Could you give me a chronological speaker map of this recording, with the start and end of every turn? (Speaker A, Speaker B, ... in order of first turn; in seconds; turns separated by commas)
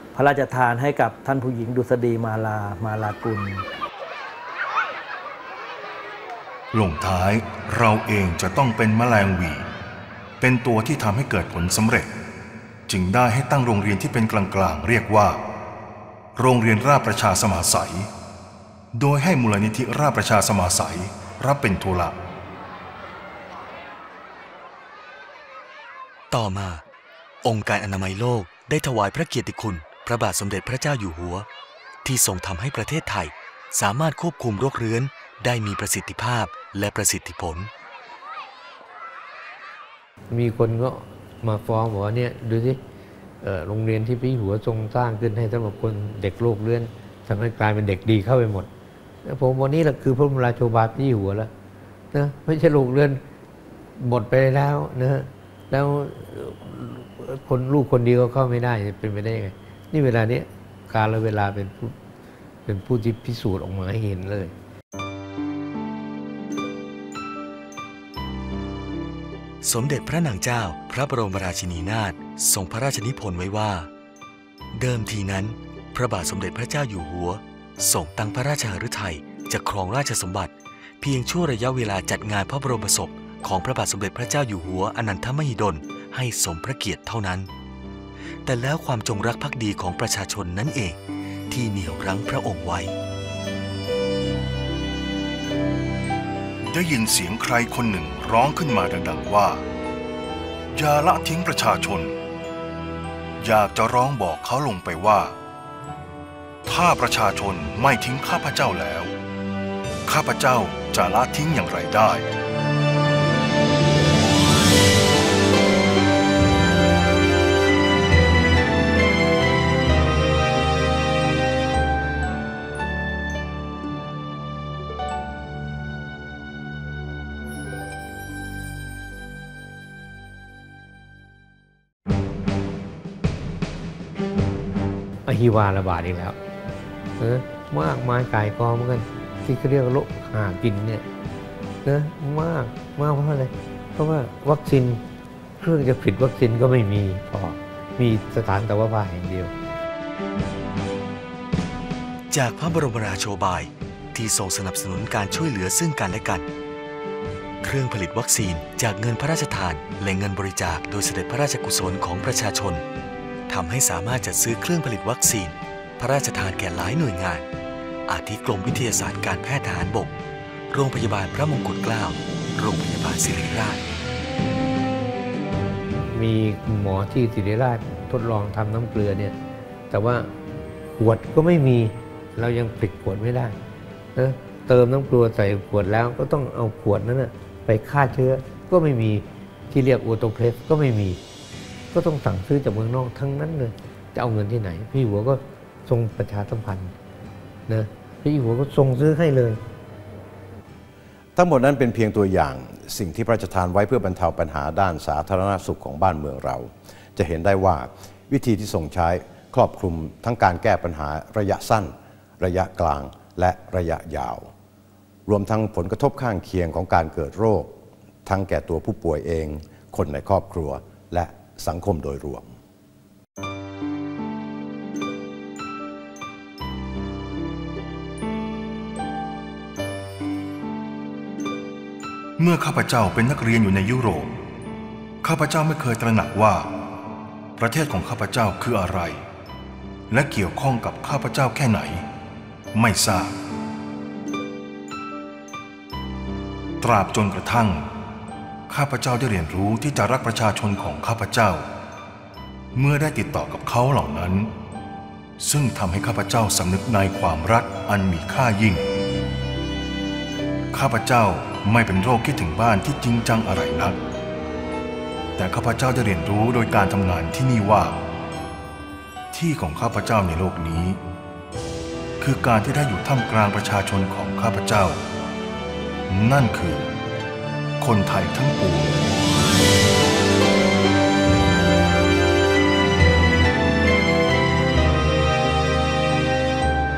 Speaker A: 0.1-3.6, Speaker B: 6.7-9.7, Speaker B: 10.4-12.1, Speaker B: 12.9-15.4, Speaker B: 16.4-18.1, Speaker B: 18.9-22.1, Speaker C: 26.3-26.8, Speaker C: 27.4-31.5, Speaker C: 32.0-37.7, Speaker D: 40.3-42.8, Speaker D: 43.4-48.7, Speaker D: 49.2-51.5, Speaker D: 52.1-53.2, Speaker D: 54.0-62.0, Speaker D: 62.6-64.5, Speaker C: 69.6-73.9, Speaker C: 74.8-87.5, Speaker C: 88.5-92.9, Speaker B: 96.7-99.6, Speaker B: 100.7-102.2, Speaker B: 103.4-105.3, Speaker B: 106.7-109.1, Speaker B: 110.1-112.3, Speaker D: 135.3-136.4, Speaker D: 137.2-141.0, Speaker D: 141.8-145.0, Speaker D: 145.6-149.5, Speaker C: 152.3-156.5, Speaker C: 157.6-162.8, Speaker C: 163.5-167.5, Speaker C: 168.1-170.1, Speaker C: 170.7-173.8, Speaker D: 176.1-179.4, Speaker D: 179.9-180.3, Speaker D: 181.0-183.6, Speaker D: 184.2-191.2, Speaker D: 191.9-196.9, Speaker D: 197.7-199.6, Speaker E: 201.4-214.5, Speaker E: 215.3-217.7, Speaker E: 218.3-222.5, Speaker B: 232.4-234.3, Speaker B: 235.2-236.7, Speaker B: 237.6-239.2, Speaker B: 240.1-242.1, Speaker B: 242.8-243.3, Speaker B: 246.8-247.9, Speaker B: 248.7-251.7, Speaker B: 252.8-254.5, Speaker B: 255.4-258.8, Speaker B: 260.7-264.0, Speaker B: 265.4-268.0, Speaker B: 269.3-271.0, Speaker B: 272.2-275.0, Speaker B: 276.1-276.9, Speaker B: 277.8-279.0